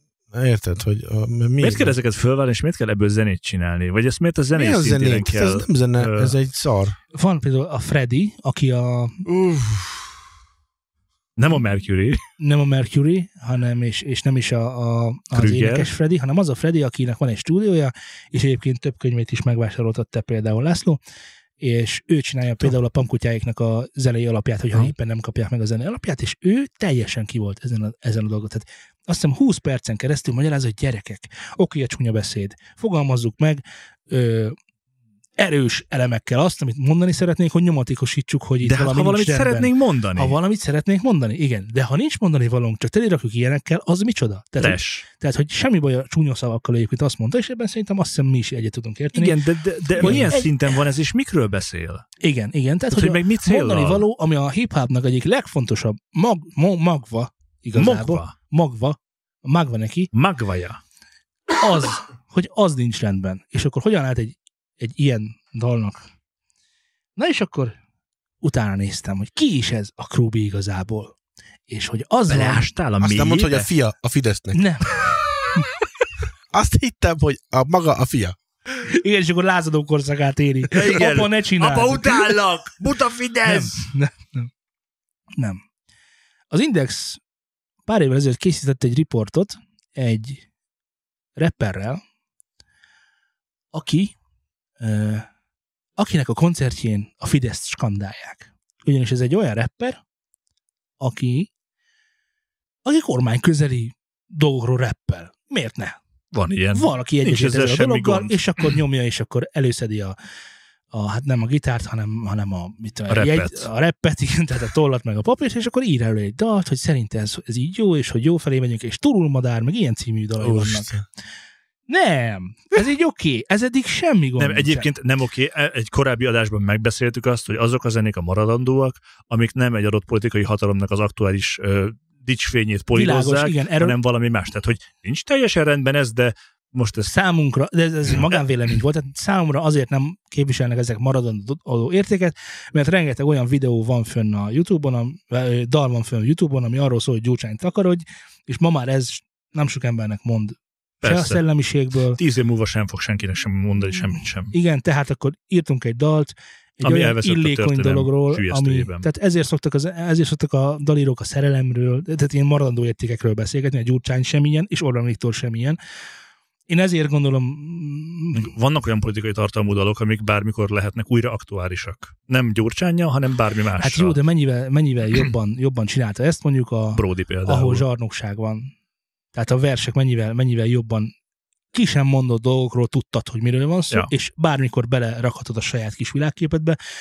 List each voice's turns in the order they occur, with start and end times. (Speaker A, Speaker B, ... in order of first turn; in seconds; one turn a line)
Speaker A: 0.3-1.9
Speaker B: 1.6-6.4
Speaker A: 4.5-7.0
Speaker C: 7.1-9.2
Speaker A: 9.3-10.1
Speaker B: 11.4-12.2
Speaker C: 12.4-21.0
Speaker B: 15.3-15.9
Speaker C: 21.6-34.6
Speaker C: 35.4-49.4
Speaker B: 38.6-40.4
Speaker B: 44.6-45.0
Speaker B: 49.1-52.0
Speaker C: 50.0-50.8
Speaker A: 50.0-50.3
Speaker C: 52.2-60.1
Speaker B: 52.9-54.1
Speaker B: 57.8-58.3
Speaker B: 60.1-60.8
Speaker C: 61.5-66.0
Speaker C: 67.2-67.8
Speaker C: 68.4-71.2
Speaker C: 71.7-72.7
Speaker B: 72.3-73.7
Speaker A: 73.0-74.6
Speaker C: 74.5-74.9
Speaker A: 76.5-78.4
Speaker C: 78.8-82.4
Speaker B: 80.7-83.9
Speaker C: 83.5-84.5
Speaker C: 86.5-87.2
Speaker C: 87.9-90.5
Speaker C: 91.4-92.0
Speaker C: 93.7-94.2
Speaker C: 94.8-95.3
Speaker C: 96.0-100.0
Speaker C: 101.0-101.5
Speaker C: 102.8-106.0
Speaker B: 106.3-108.8
Speaker C: 106.7-110.2
Speaker C: 110.9-120.9
Speaker B: 113.1-113.7
Speaker A: 120.4-121.0
Speaker C: 121.9-124.9
Speaker B: 124.4-137.1
Speaker C: 132.9-134.0
Speaker C: 137.1-152.2
Speaker B: 151.0-151.4
Speaker B: 152.2-154.5
Speaker C: 154.5-165.8
Speaker B: 156.8-159.1
Speaker C: 166.7-168.5
Speaker B: 168.3-174.2
Speaker C: 173.8-178.7
Speaker B: 176.9-177.8
Speaker C: 179.3-181.1
Speaker C: 181.7-186.8